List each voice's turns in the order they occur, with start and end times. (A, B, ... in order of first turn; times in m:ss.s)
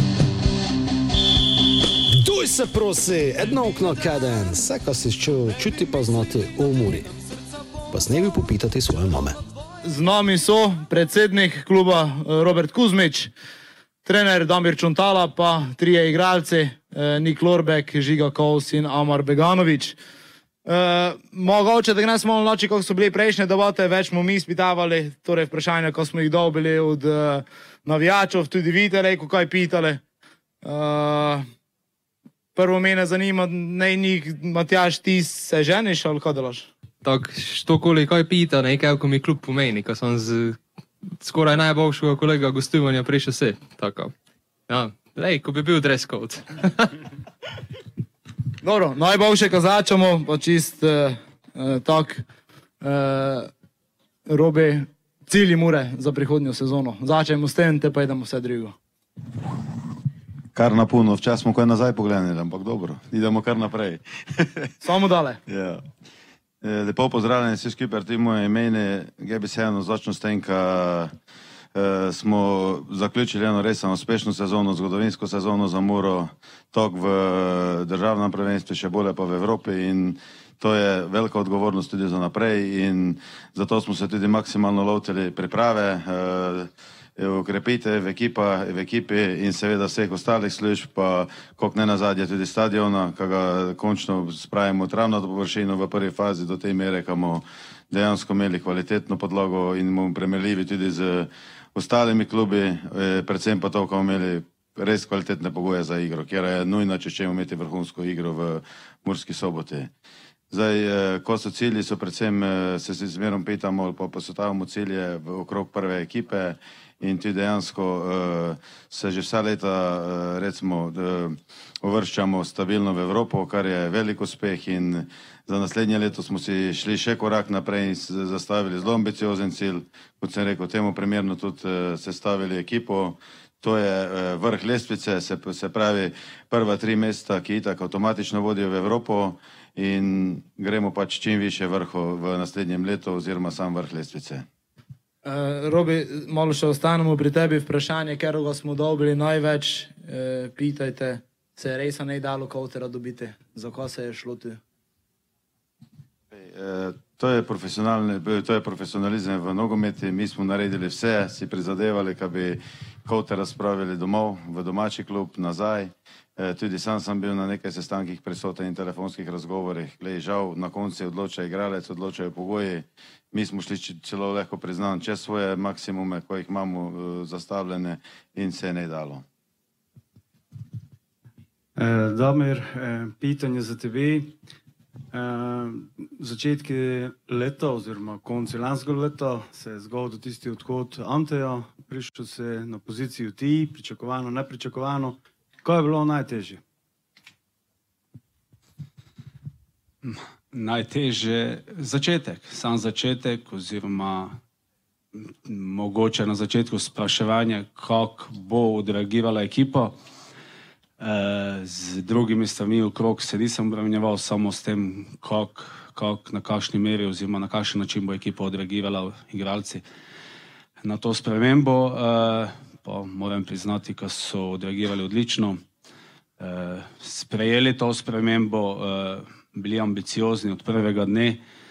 0:02.2-0:07.1 A
0:07.9-0:09.4 A
0:09.8-0:13.3 B
0:14.0-0:20.0 B
0:20.6-0:30.0 B
0:30.6-0:31.4 B
0:32.6-0:36.7 B
0:37.0-0:40.6 C
0:41.2-0:44.1 C
0:44.7-0:46.9 C
0:48.6-0:52.2 B
0:52.8-0:53.5 B
0:54.3-0:58.7 B
1:00.5-1:04.7 D
1:04.8-1:05.4 B
1:05.5-1:05.8 D
1:06.6-1:11.1 D
1:11.7-1:49.9 D
1:50.5-2:24.4 D
2:25.2-2:34.6 B
2:36.3-2:59.2 D
3:01.8-3:04.3 E
3:05.1-3:16.6 E
3:20.0-3:24.4 F
3:25.3-3:29.9 F
3:31.0-3:39.8 F
3:40.8-3:45.6 F
3:46.4-3:51.4 F